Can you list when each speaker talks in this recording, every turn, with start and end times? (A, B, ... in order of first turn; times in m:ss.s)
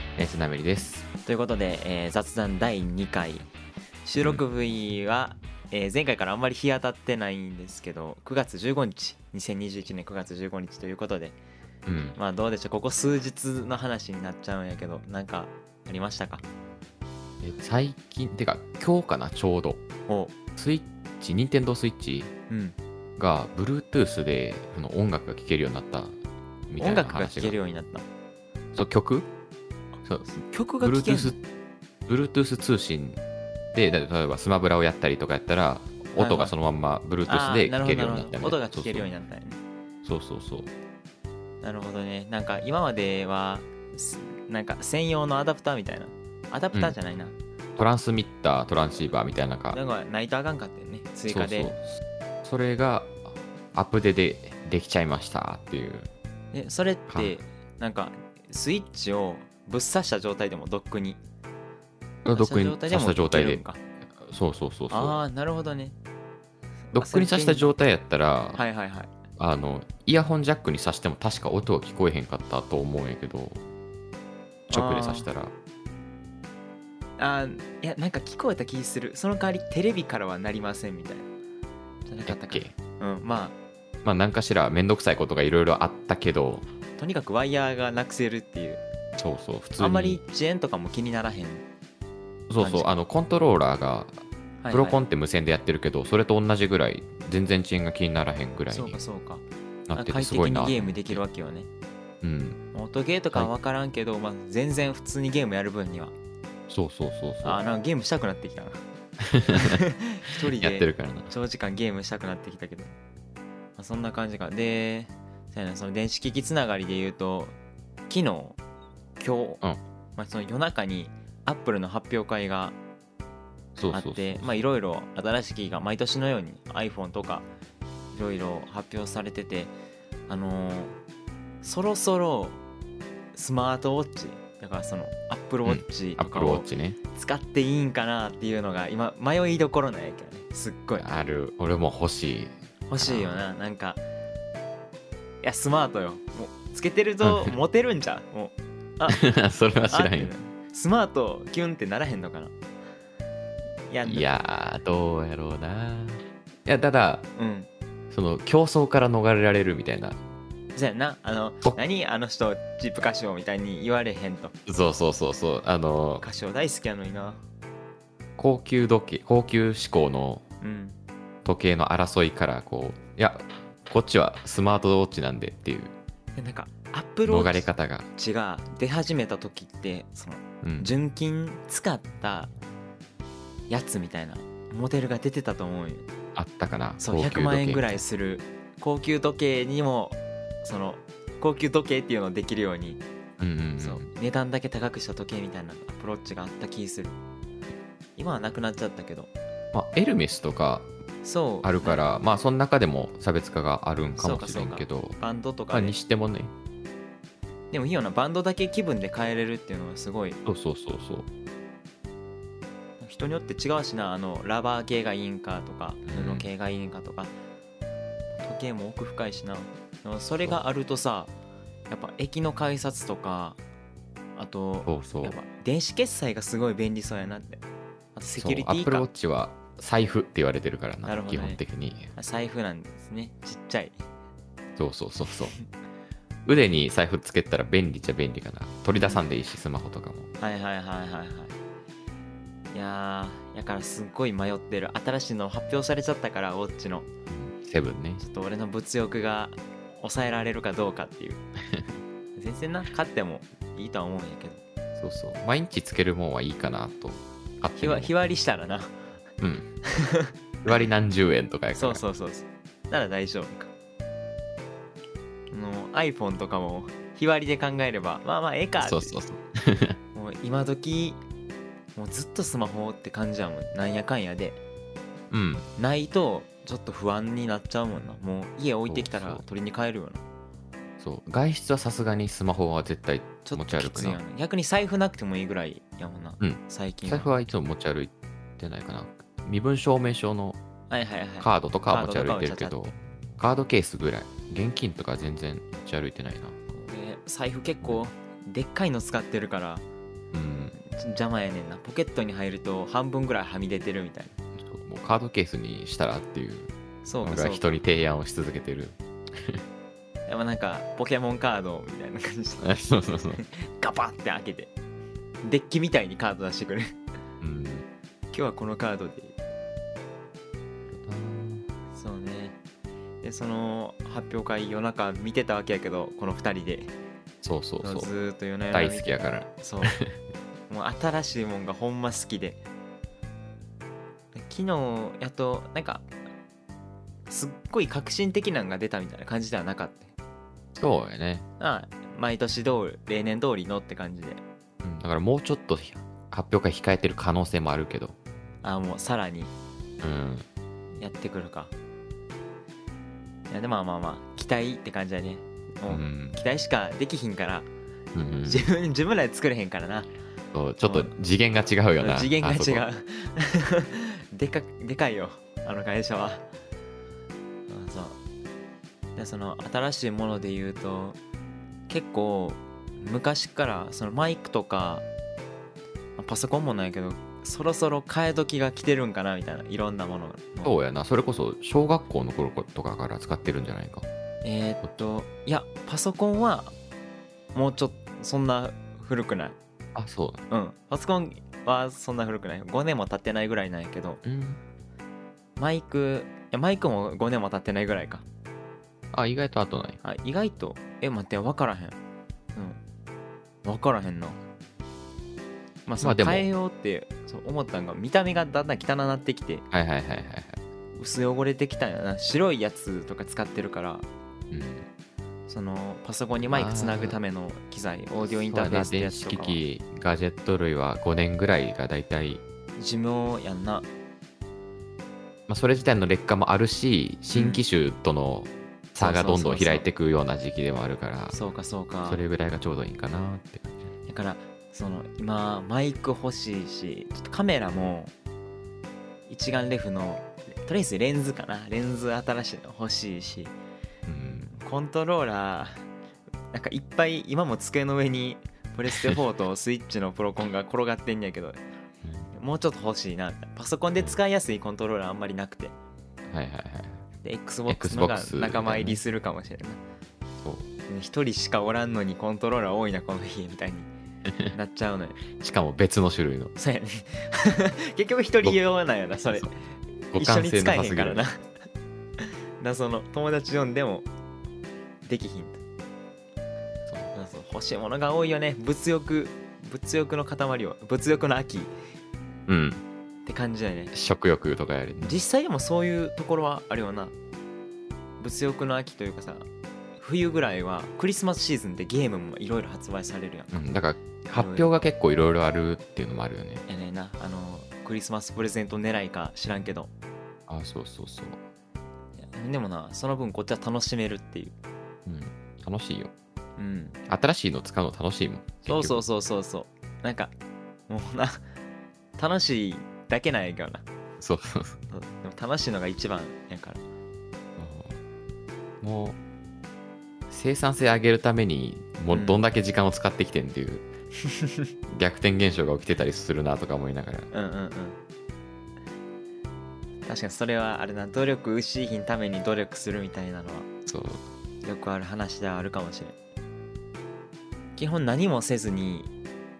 0:00.2-0:01.1 A
0:01.3-0:03.5 B
0:04.0-0:11.4 B
0:11.9-0:12.2 A
0:12.2-0:16.4 B
0:17.4-0:19.8 A
0:20.1-0:20.3 B
0:20.6-0:22.3 A
0:22.5-0:22.8 B
0:23.2-0:26.2 A
0:26.7-0:27.6 A
0:26.8-0:28.1 B
0:28.7-0:29.3 A
0:30.0-0:31.4 A
0:30.3-0:31.4 B
0:32.1-0:33.2 A
0:33.7-0:39.1 A
0:36.2-0:36.5 B
0:37.3-0:39.6 B
0:40.0-0:40.7 A
0:41.6-0:47.4 B
0:47.8-0:49.8 A
0:49.7-0:51.7 B
0:51.3-0:56.1 A
0:56.5-1:01.2 B
0:57.1-0:57.4 A
1:02.2-1:03.6 A
1:02.3-1:03.8 B
1:04.2-1:05.2 A
1:04.9-1:06.0 B
1:06.9-1:07.7 B
1:06.9-1:08.6 A
1:08.6-1:09.1 B
1:09.4-1:13.6 A
1:14.7-1:15.3 B
1:14.7-1:15.5 A
1:17.2-1:21.3 B
1:22.1-1:23.6 B
1:22.3-1:22.7 A
1:24.0-1:26.6 A
1:27.0-1:28.8 B
1:29.2-1:30.2 A
1:29.8-1:31.6 B
1:32.5-1:39.0 A
1:32.6-1:32.9 B
1:34.6-1:35.0 B
1:38.7-1:41.7 B
1:39.9-1:41.2 A
1:42.2-1:42.6 A
1:42.7-1:46.1 B
1:46.7-1:47.6 A
1:47.4-1:48.8 B
1:49.3-1:49.8 A
1:49.5-1:52.9 B
1:50.6-1:51.3 A
1:53.8-1:57.6 B
1:58.1-1:58.6 B
1:59.2-1:59.6 B
2:00.2-2:02.8 B
2:03.8-2:04.5 A
2:03.9-2:07.5 B
2:08.1-2:09.7 B
2:10.3-2:11.0 B
2:11.6-2:12.6 B
2:13.3-2:21.1 B
2:15.7-2:17.0 A
2:21.0-2:23.5 A
2:22.9-2:24.0 B
2:25.4-2:29.2 B
2:27.2-2:27.6 A
2:29.1-2:30.3 A
2:29.9-2:32.5 B
2:33.9-2:34.3 B
2:34.0-2:37.3 A
2:37.4-2:37.7 B
2:38.1-2:40.2 A
2:40.8-2:44.6 B
2:44.7-2:46.3 A
2:46.2-2:47.4 B
2:48.4-2:50.4 A
2:50.6-2:51.0 B
2:51.4-2:55.9 A
2:56.4-3:02.5 B
2:57.3-2:58.1 A
3:00.6-3:01.0 A
3:03.7-3:06.1 B
3:06.4-3:08.0 A
3:07.0-3:13.0 B
3:13.4-3:14.1 A
3:13.8-3:17.2 B
3:18.2-3:19.3 B
3:19.7-3:20.9 A
3:21.2-3:22.1 B
3:21.6-3:25.2 A
3:24.2-3:26.0 B
3:25.7-3:26.5 A
3:27.7-3:30.4 B
3:30.5-3:31.3 A
3:33.0-3:37.3 B
3:36.1-3:36.5 A
3:38.4-3:41.3 B
3:41.9-3:43.6 B
3:44.4-3:47.6 B
3:44.8-3:45.4 A
3:48.2-3:49.1 B
3:48.4-3:52.1 A
3:51.0-3:51.6 B
3:52.2-3:54.0 B
3:54.8-3:55.6 A
3:56.5-4:00.3 A
3:58.9-3:59.2 B
4:00.4-4:01.6 B
4:02.7-4:07.1 B
4:07.3-4:08.2 A
4:08.2-4:11.4 B
4:12.4-4:14.6 B
4:15.0-4:18.2 A
4:17.8-4:19.0 B
4:19.4-4:19.7 A
4:19.8-4:20.3 B
4:20.6-4:22.0 A
4:21.7-4:23.7 B
4:25.5-4:29.2 B
4:28.8-4:30.0 A
4:30.2-4:31.2 B
4:32.0-4:34.6 B
4:35.3-4:35.7 A
4:35.8-4:40.2 B
4:38.9-4:39.4 A
4:41.0-4:44.2 A
4:43.4-4:47.3 B
4:46.4-4:50.6 A
4:50.9-4:52.8 B
4:51.4-4:56.6 A
4:56.7-4:59.8 B
5:00.3-5:00.7 A
5:00.8-5:04.4 B
5:04.6-5:09.6 A
5:07.0-5:07.7 B
5:10.3-5:14.7 B
5:12.6-5:13.4 A
5:15.4-5:17.0 B
5:17.4-5:17.8 A
5:18.3-5:19.4 B
5:20.9-5:21.6 A
5:21.9-5:22.6 B
5:23.2-5:26.9 B
5:27.4-5:28.1 A
5:27.8-5:30.0 B
5:28.7-5:30.2 A
5:30.7-5:32.6 B
5:34.3-5:36.1 B
5:37.3-5:40.1 B
5:40.8-5:41.5 A
5:41.6-5:44.4 B
5:44.8-5:48.2 A
5:48.6-5:49.5 B
5:50.0-5:50.4 A
5:51.0-5:51.7 B
5:53.5-5:57.7 B
5:55.9-5:56.4 A
5:58.2-5:58.7 A
5:58.4-6:00.1 B
6:00.5-6:02.9 A
6:00.8-6:01.1 B
6:02.0-6:06.4 B
6:07.7-6:08.2 B
6:09.2-6:11.2 B
6:11.9-6:15.0 B
6:16.2-6:20.8 B
6:20.6-6:24.1 A
6:24.4-6:26.7 B
6:24.8-6:25.1 A
6:27.5-6:29.6 B
6:30.0-6:30.5 A
6:30.5-6:34.2 B
6:34.2-6:34.6 A
6:35.6-6:38.2 B
6:39.1-6:40.0 A
6:40.0-6:42.0 B
6:42.6-6:42.8 B
6:43.6-6:44.4 B
6:45.9-6:49.6 B
6:46.0-6:46.5 A
6:49.7-6:50.6 A
6:51.0-6:54.1 B
6:54.5-6:54.9 A
6:55.5-6:59.6 B
6:56.4-6:57.2 A
6:58.2-7:02.4 A
7:02.8-7:03.9 B
7:05.5-7:11.4 A
7:07.3-7:07.6 B
7:09.0-7:09.9 B
7:11.3-7:12.2 B
7:12.0-7:13.9 A
7:14.1-7:18.1 B
7:19.3-7:23.5 B
7:24.1-7:24.5 A
7:24.5-7:25.8 B
7:26.5-7:31.6 B
7:32.0-7:32.3 A
7:32.3-7:35.8 B
7:36.3-7:37.1 A
7:37.2-7:39.8 B
7:37.7-7:39.0 A
7:40.4-7:40.7 A
7:40.9-7:43.9 B
7:44.3-7:44.6 A
7:44.5-7:45.2 B
7:45.4-7:46.5 A
7:46.6-7:51.5 B
7:50.1-7:51.2 A
7:52.2-7:54.1 B
7:55.0-7:55.6 B
7:56.9-7:57.1 A
7:57.1-8:01.7 B
8:02.5-8:02.8 A
8:03.3-8:03.9 B
8:03.9-8:05.2 A
8:05.0-8:07.1 B
8:08.2-8:09.5 B
8:10.0-8:13.8 B
8:13.5-8:16.7 A
8:14.3-8:14.8 B
8:16.7-8:19.9 B
8:20.5-8:21.4 A
8:22.3-8:24.6 B
8:25.1-8:26.1 A
8:26.6-8:27.0 B
8:27.1-8:29.0 A
8:28.6-8:30.3 B
8:30.9-8:31.4 B
8:32.2-8:33.8 B
8:34.2-8:34.8 A
8:34.9-8:36.8 B
8:37.6-8:38.0 A
8:38.8-8:39.2 A
8:40.3-8:43.9 A
8:42.1-8:42.4 B
8:44.9-8:47.3 A
8:47.3-8:48.0 B
8:50.0-8:53.7 B
8:53.9-8:54.3 A
8:54.6-8:56.2 B
8:57.8-8:59.1 B